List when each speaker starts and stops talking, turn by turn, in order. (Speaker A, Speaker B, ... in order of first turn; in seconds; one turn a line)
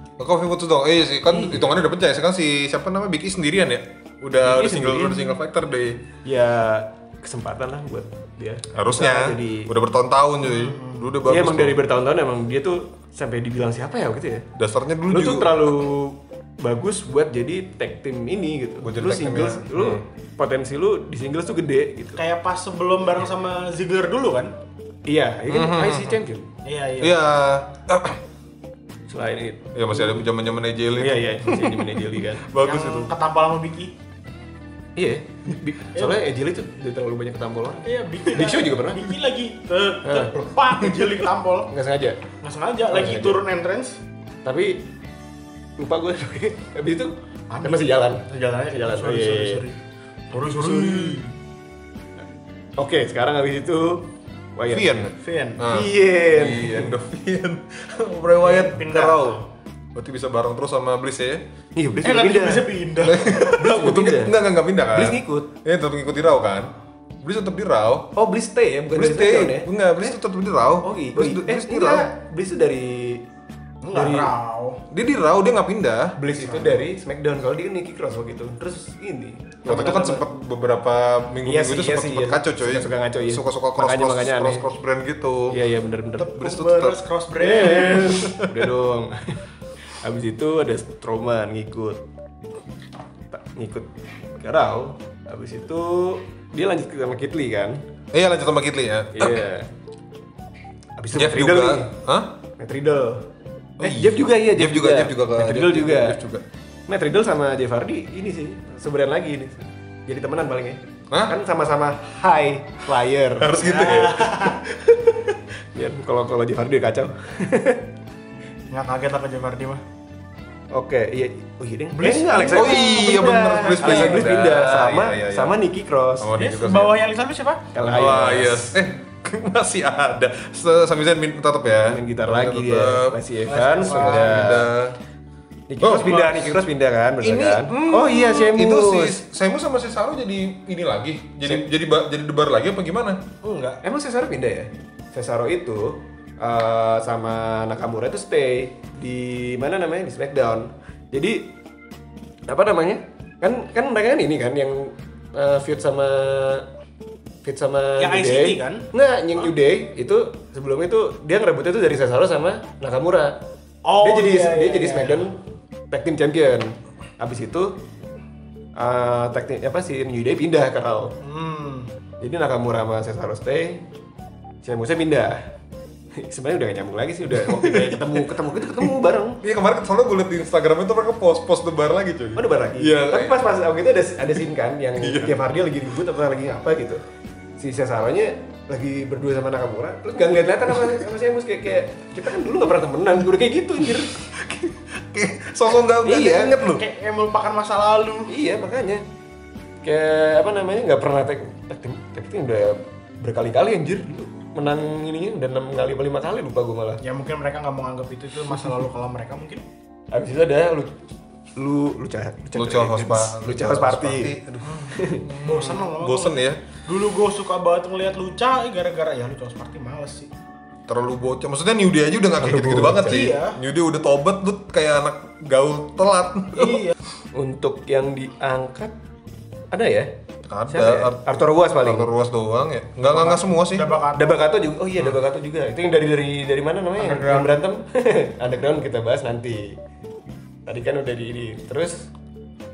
Speaker A: 0.2-6.0
Speaker B: 1.3-1.7
Speaker B: 4.4-5.3
Speaker B: 6.2-9.7
Speaker A: 8.7-11.8
Speaker C: 10.4-11.1
Speaker B: 11.2-14.5
Speaker A: 14.6-15.7
Speaker B: 15.1-22.2
Speaker A: 18.8-20.0
Speaker C: 22.2-24.5
Speaker B: 25.1-26.5
Speaker A: 25.5-26.2
Speaker C: 26.6-27.1
Speaker A: 27.0-28.2
Speaker B: 29.1-30.1
Speaker A: 29.8-31.9
Speaker B: 30.9-32.5
Speaker A: 32.5-33.1
Speaker C: 32.6-33.9
Speaker B: 35.0-39.1
Speaker C: 35.9-36.2
Speaker C: 37.9-41.7
Speaker B: 40.0-40.4
Speaker B: 41.7-42.2
Speaker C: 42.4-44.0
Speaker B: 42.9-43.4
Speaker B: 44.4-44.9
Speaker B: 45.8-49.6
Speaker C: 47.5-49.8
Speaker C: 50.3-51.2
Speaker B: 50.5-51.3
Speaker B: 52.8-55.0
Speaker A: 54.7-59.4
Speaker C: 55.2-55.6
Speaker B: 55.7-56.9
Speaker C: 58.4-59.4
Speaker A: 59.9-61.4
Speaker B: 61.8-62.7
Speaker C: 62.0-63.5
Speaker A: 63.0-68.1
Speaker B: 63.5-64.3
Speaker B: 64.9-65.5
Speaker B: 68.1-70.1
Speaker A: 68.9-72.1
Speaker B: 70.8-73.2
Speaker C: 73.8-74.8
Speaker B: 73.9-74.3
Speaker A: 74.9-76.8
Speaker B: 76.2-80.2
Speaker A: 79.7-85.6
Speaker B: 81.4-84.6
Speaker B: 85.5-86.4
Speaker A: 86.2-87.0
Speaker C: 86.2-88.2
Speaker B: 87.4-89.4
Speaker A: 88.0-88.7
Speaker B: 89.9-92.0
Speaker B: 93.3-97.9
Speaker A: 98.1-99.5
Speaker B: 99.1-99.7
Speaker B: 101.0-101.9
Speaker A: 101.1-102.3
Speaker B: 102.6-103.2
Speaker B: 103.8-106.2
Speaker A: 103.8-106.4
Speaker B: 106.9-113.6
Speaker A: 113.4-114.5
Speaker C: 113.6-114.6
Speaker B: 114.6-117.9
Speaker C: 118.7-119.8
Speaker B: 120.7-126.3
Speaker C: 121.9-124.2
Speaker A: 122.5-125.6
Speaker A: 126.2-127.0
Speaker C: 126.3-127.6
Speaker B: 127.7-128.8
Speaker A: 127.8-133.2
Speaker B: 131.8-134.7
Speaker C: 133.5-134.6
Speaker A: 133.9-134.9
Speaker B: 135.7-139.2
Speaker A: 135.8-136.3
Speaker C: 136.0-136.4
Speaker A: 137.2-143.2
Speaker C: 143.4-143.8
Speaker B: 143.8-151.5
Speaker B: 152.5-156.7
Speaker B: 157.4-163.4
Speaker C: 158.0-158.9
Speaker C: 163.8-165.2
Speaker B: 164.0-165.4
Speaker B: 165.9-167.8
Speaker B: 168.8-171.1
Speaker C: 171.2-171.9
Speaker B: 172.2-173.8
Speaker B: 174.6-175.5
Speaker B: 176.1-179.4
Speaker A: 177.4-178.1
Speaker A: 179.4-183.5
Speaker B: 182.4-187.0
Speaker A: 185.0-185.4
Speaker B: 187.6-194.2
Speaker A: 194.0-196.7
Speaker B: 196.0-196.8
Speaker C: 196.2-198.3
Speaker B: 198.3-199.0
Speaker B: 199.8-207.0
Speaker C: 207.0-209.6
Speaker B: 210.1-210.9
Speaker B: 211.6-214.4
Speaker A: 212.5-216.6
Speaker C: 214.6-220.3
Speaker B: 214.9-215.3
Speaker A: 220.9-226.9
Speaker B: 222.4-223.3
Speaker C: 223.0-223.6
Speaker C: 226.6-226.9
Speaker B: 227.3-228.9
Speaker B: 229.7-230.1
Speaker A: 230.4-233.9
Speaker B: 230.7-232.1
Speaker C: 233.1-234.4
Speaker B: 234.1-239.8
Speaker C: 237.0-237.6
Speaker B: 240.7-242.1